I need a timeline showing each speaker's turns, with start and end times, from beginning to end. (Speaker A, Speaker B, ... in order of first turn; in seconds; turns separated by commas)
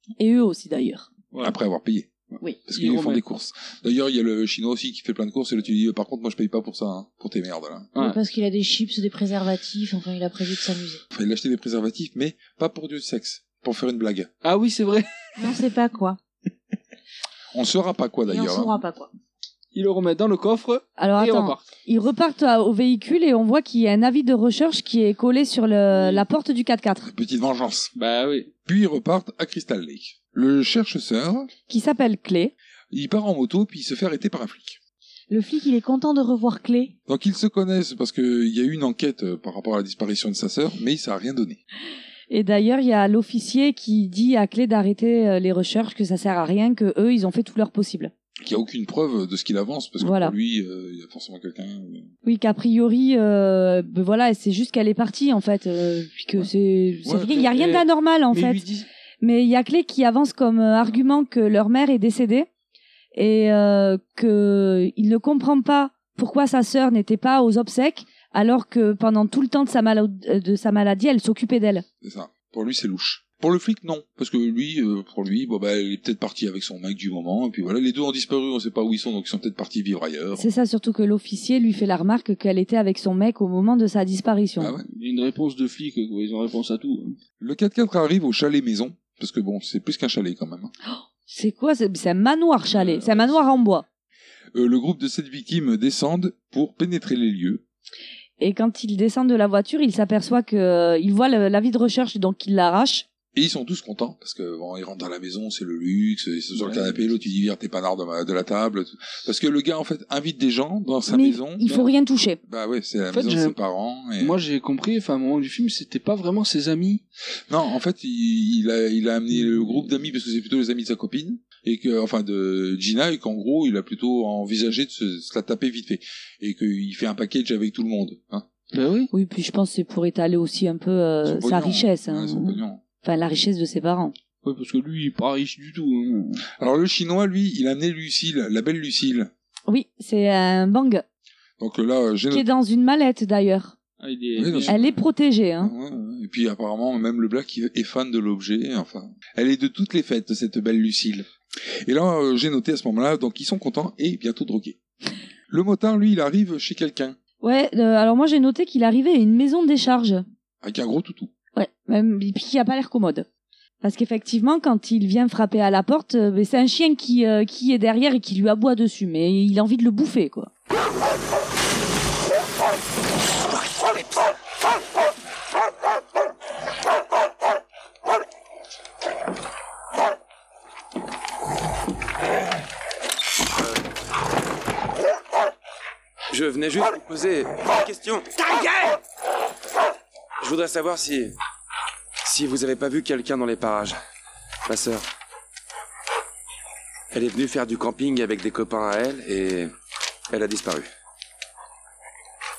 Speaker A: 0.2-1.1, Speaker B: 1.3-1.6, Speaker C: 1.4-2.1, Speaker C: 2.7-7.9, Speaker B: 2.7-3.2, Speaker D: 8.0-11.0, Speaker C: 11.1-14.3, Speaker B: 14.4-15.1, Speaker D: 15.4-16.2, Speaker C: 17.5-18.8, Speaker D: 18.3-19.1, Speaker B: 19.7-21.6, Speaker A: 21.0-27.1, Speaker B: 26.0-26.2, Speaker C: 27.1-27.9, Speaker B: 28.0-28.5, Speaker C: 28.7-31.5, Speaker A: 31.7-32.5, Speaker C: 32.9-34.8, Speaker D: 35.3-37.0, Speaker C: 37.1-41.6, Speaker A: 42.3-48.1, Speaker C: 48.4-52.1, Speaker A: 50.0-50.4, Speaker A: 52.2-58.6, Speaker C: 57.0-57.4, Speaker B: 57.3-58.9, Speaker A: 59.2-62.5, Speaker A: 63.1-71.8, Speaker C: 72.0-80.5, Speaker A: 80.3-84.8, Speaker C: 84.6-84.8, Speaker B: 84.9-87.2, Speaker C: 87.4-90.7, Speaker A: 90.9-93.8, Speaker C: 92.7-93.4, Speaker C: 94.5-97.6, Speaker A: 98.4-103.1, Speaker C: 103.3-111.7, Speaker B: 106.5-107.1, Speaker A: 111.1-112.4, Speaker C: 112.5-114.4, Speaker B: 113.1-113.6, Speaker B: 114.2-117.0, Speaker C: 117.5-128.5, Speaker B: 119.3-119.8, Speaker B: 128.7-129.1, Speaker A: 129.1-134.2, Speaker C: 131.2-132.8, Speaker B: 134.4-136.4, Speaker C: 136.6-139.3, Speaker A: 139.7-141.0, Speaker C: 141.6-142.5, Speaker A: 142.3-143.8, Speaker B: 144.0-144.9, Speaker C: 144.4-145.0, Speaker A: 144.7-145.7, Speaker C: 145.6-151.3, Speaker C: 151.8-154.8, Speaker C: 155.5-157.2, Speaker A: 157.4-160.2, Speaker C: 160.6-161.3, Speaker A: 161.6-163.3, Speaker A: 163.8-170.5, Speaker E: 186.3-188.9, Speaker E: 190.4-191.3, Speaker E: 192.2-194.0, Speaker E: 194.7-195.0, Speaker E: 197.1-199.7, Speaker E: 200.3-200.9